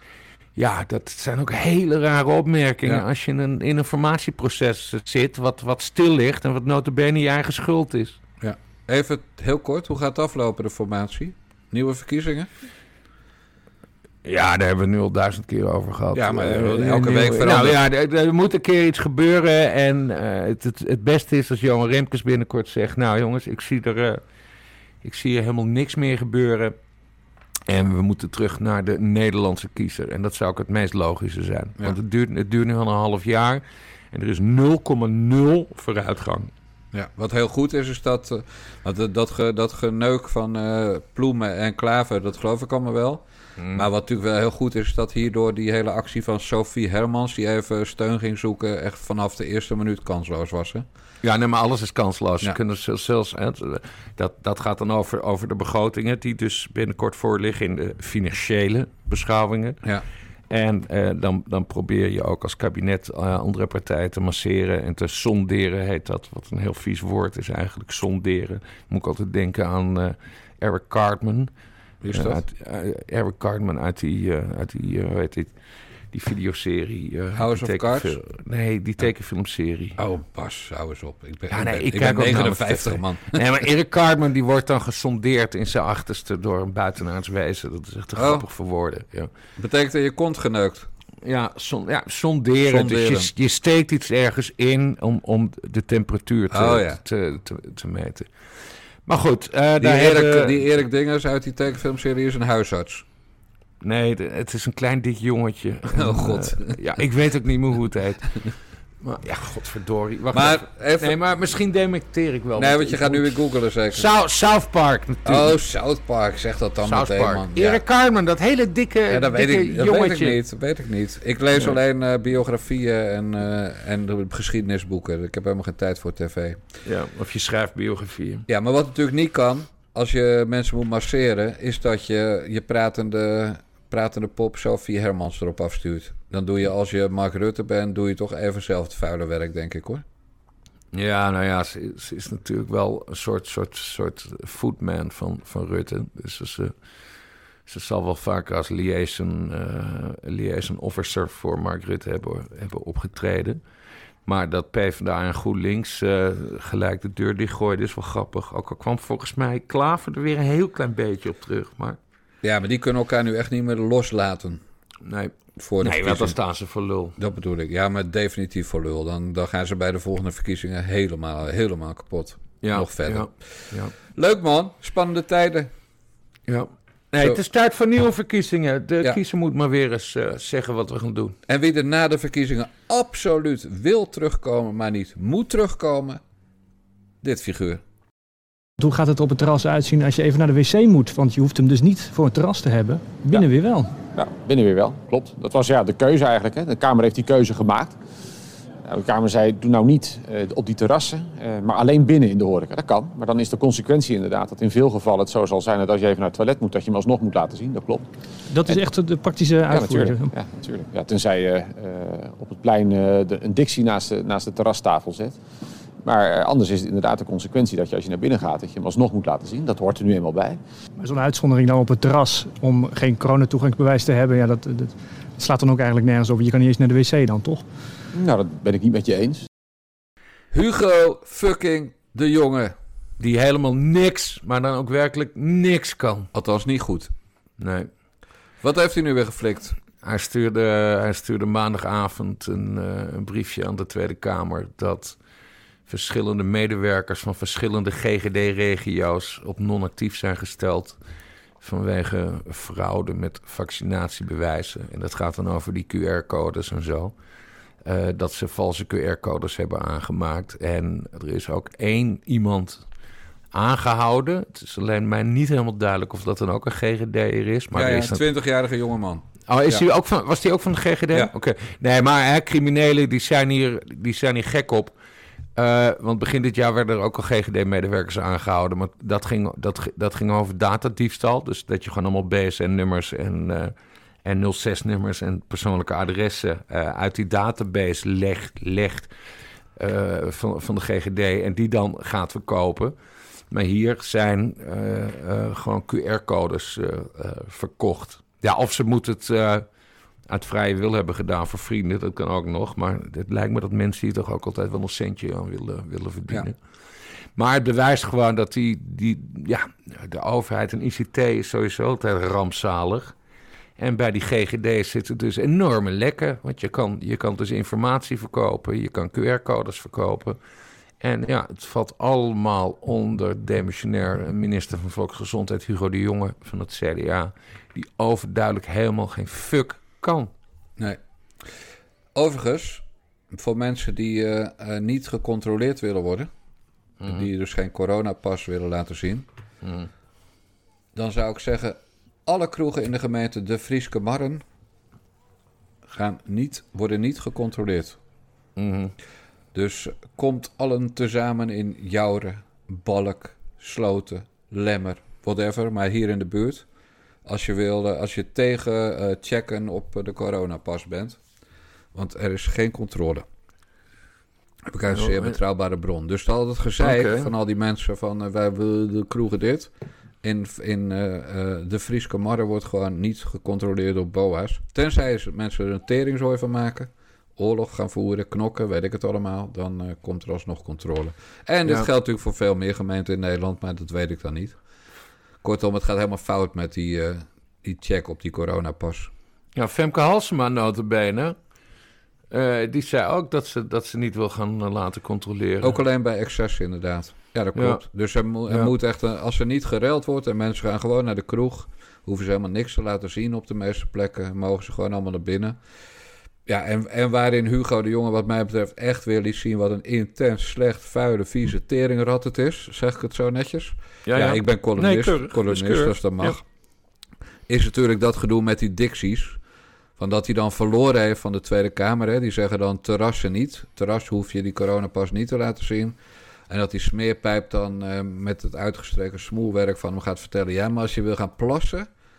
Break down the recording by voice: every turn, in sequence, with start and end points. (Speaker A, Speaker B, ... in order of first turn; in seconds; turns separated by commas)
Speaker A: 0.6-8.2, Speaker B: 8.4-12.5, Speaker A: 14.2-24.2, Speaker B: 16.1-17.8, Speaker A: 25.0-26.8, Speaker A: 27.7-36.5, Speaker B: 36.9-50.9, Speaker A: 43.6-43.9, Speaker A: 51.2-59.8, Speaker A: 60.5-71.5, Speaker B: 72.0-72.4, Speaker A: 72.1-75.5, Speaker A: 76.1-80.0, Speaker B: 77.3-78.1, Speaker B: 80.0-83.4, Speaker A: 81.5-89.3, Speaker B: 88.1-88.4, Speaker B: 89.6-90.9, Speaker A: 91.2-98.3, Speaker B: 92.6-93.3, Speaker B: 96.5-97.0, Speaker A: 99.0-100.6, Speaker B: 99.8-103.0, Speaker A: 103.8-113.3, Speaker B: 105.9-106.8, Speaker B: 110.3-111.2, Speaker B: 112.5-114.1, Speaker A: 113.9-115.5, Speaker B: 115.2-117.8, Speaker A: 116.8-120.4, Speaker B: 119.1-126.6, Speaker A: 126.8-128.5, Speaker B: 128.5-140.0, Speaker A: 140.9-146.7, Speaker A: 147.7-153.6, Speaker A: 154.2-162.0, Speaker B: 162.4-164.6, Speaker A: 165.0-167.2, Speaker B: 165.6-166.4, Speaker B: 167.2-173.3, Speaker A: 172.6-173.9, Speaker B: 173.9-175.7, Speaker A: 176.5-181.4, Speaker B: 181.5-186.2, Speaker B: 187.2-187.8, Speaker C: 188.8-194.0, Speaker D: 194.0-198.0, Speaker D: 198.8-208.1, Speaker C: 208.5-210.3, Speaker D: 209.7-215.4, Speaker D: 216.0-220.6, Speaker C: 221.0-227.6, Speaker D: 228.1-229.4, Speaker B: 230.5-232.7, Speaker A: 233.2-236.3, Speaker B: 236.3-237.1, Speaker A: 237.6-237.9, Speaker B: 238.6-239.8, Speaker A: 240.0-245.2, Speaker A: 245.9-251.0, Speaker A: 251.6-257.1, Speaker A: 257.8-262.8, Speaker A: 263.5-268.2, Speaker B: 267.7-269.8, Speaker A: 269.5-274.9, Speaker A: 275.6-289.1, Speaker A: 289.8-292.9, Speaker A: 293.5-299.6, Speaker A: 300.3-306.6, Speaker A: 307.4-313.1, Speaker A: 313.8-320.4, Speaker A: 321.0-330.3, Speaker B: 332.1-336.3, Speaker A: 337.0-337.3, Speaker B: 337.1-339.2, Speaker A: 339.6-339.9, Speaker B: 340.9-344.4, Speaker B: 345.9-348.0, Speaker A: 348.6-348.9, Speaker B: 349.5-356.6, Speaker B: 357.2-361.2, Speaker B: 361.9-363.2, Speaker B: 364.7-369.7, Speaker A: 364.9-365.3, Speaker A: 366.8-367.3, Speaker B: 370.2-384.6, Speaker B: 385.4-389.1, Speaker A: 389.6-391.4, Speaker A: 392.3-395.8, Speaker B: 395.6-405.6, Speaker A: 397.5-397.8, Speaker A: 398.5-398.7, Speaker B: 406.4-416.4, Speaker A: 414.1-416.4, Speaker B: 417.5-419.4, Speaker B: 420.0-425.9, Speaker B: 426.5-431.9